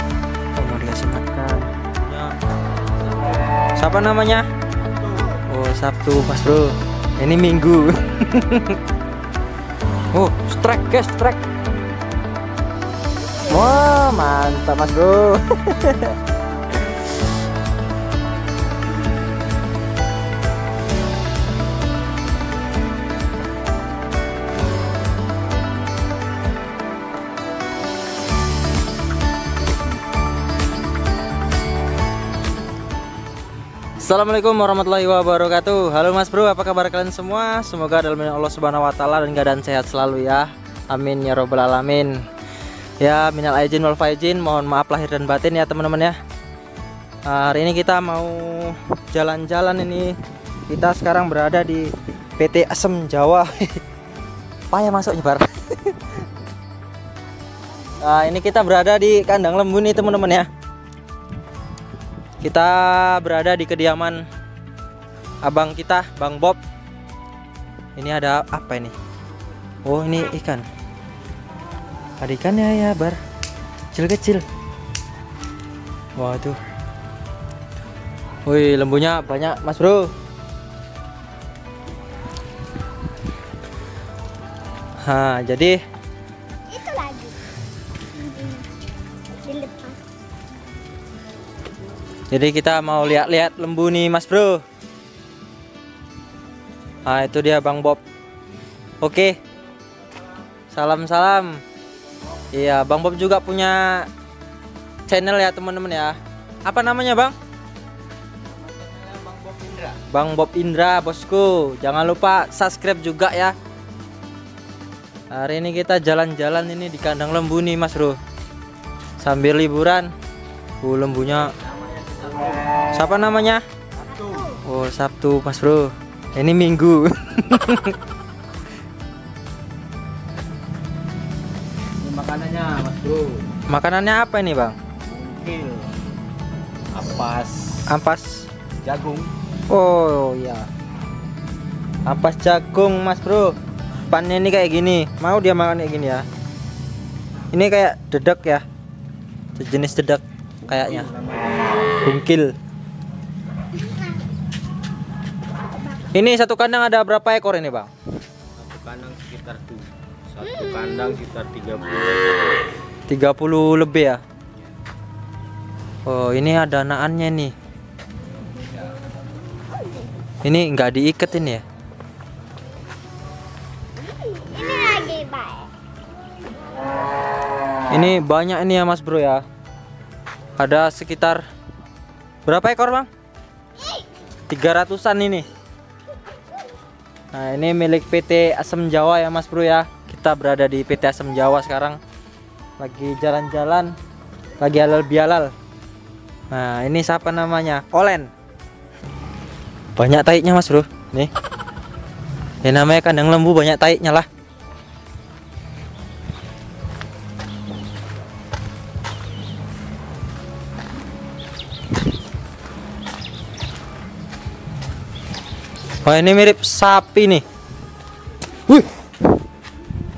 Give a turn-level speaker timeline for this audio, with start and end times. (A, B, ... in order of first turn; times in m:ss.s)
0:00.6-0:02.3 A
0:03.8-0:04.4 A
0:05.4-0:08.8 A
0:10.1-0:11.4 A
0:13.4-0:16.2 A
0:34.0-0:42.1 A
0:43.0-0:46.2 A
0:47.3-0:50.1 A
0:50.7-0:53.7 A
0:54.7-0:56.1 A
0:58.0-1:00.5 A
1:02.4-1:04.2 A
1:05.4-1:06.6 A
1:08.0-1:08.9 A
1:09.8-1:10.6 A
1:12.2-1:13.2 A
1:13.9-1:14.4 A
1:16.2-1:16.6 A
1:18.4-1:20.1 A
1:25.0-1:25.8 A
1:26.7-1:27.4 B
1:28.2-1:28.6 B
1:29.4-1:30.0 B
1:32.3-1:34.6 A
1:37.0-1:38.0 A
1:39.0-1:39.4 A
1:40.7-1:41.6 A
1:42.5-1:44.1 A
1:45.1-1:47.3 A
1:48.5-1:50.0 C
1:50.1-1:53.5 A
1:55.3-1:58.2 A
1:59.2-2:00.1 A
2:00.8-2:01.5 A
2:01.3-2:02.7 C
2:02.9-2:03.6 A
2:04.2-2:04.6 B
2:04.6-2:08.0 A
2:12.0-2:13.4 C
2:13.7-2:14.8 A
2:15.0-2:15.9 C
2:16.9-2:18.0 C
2:17.9-2:18.5 A
2:18.8-2:19.3 C
2:19.7-2:20.7 A
2:22.1-2:23.5 A
2:24.1-2:26.2 A
2:27.5-2:28.6 A
2:29.6-2:31.1 A
2:30.6-2:31.8 C
2:32.0-2:32.5 A
2:36.0-2:37.9 A
2:38.6-2:42.6 C
2:43.1-2:44.2 A
2:46.0-2:47.5 A
2:50.4-2:51.6 A
2:54.0-2:55.7 B
2:57.9-2:59.4 A
3:00.6-3:01.4 A
3:02.4-3:03.1 A
3:03.8-3:04.1 B
3:04.5-3:05.4 A
3:07.3-3:12.0 A
3:12.8-3:13.9 A
3:14.6-3:15.5 A
3:16.5-3:18.3 A
3:20.0-3:21.3 A
3:22.6-3:24.2 A
3:36.0-3:37.4 A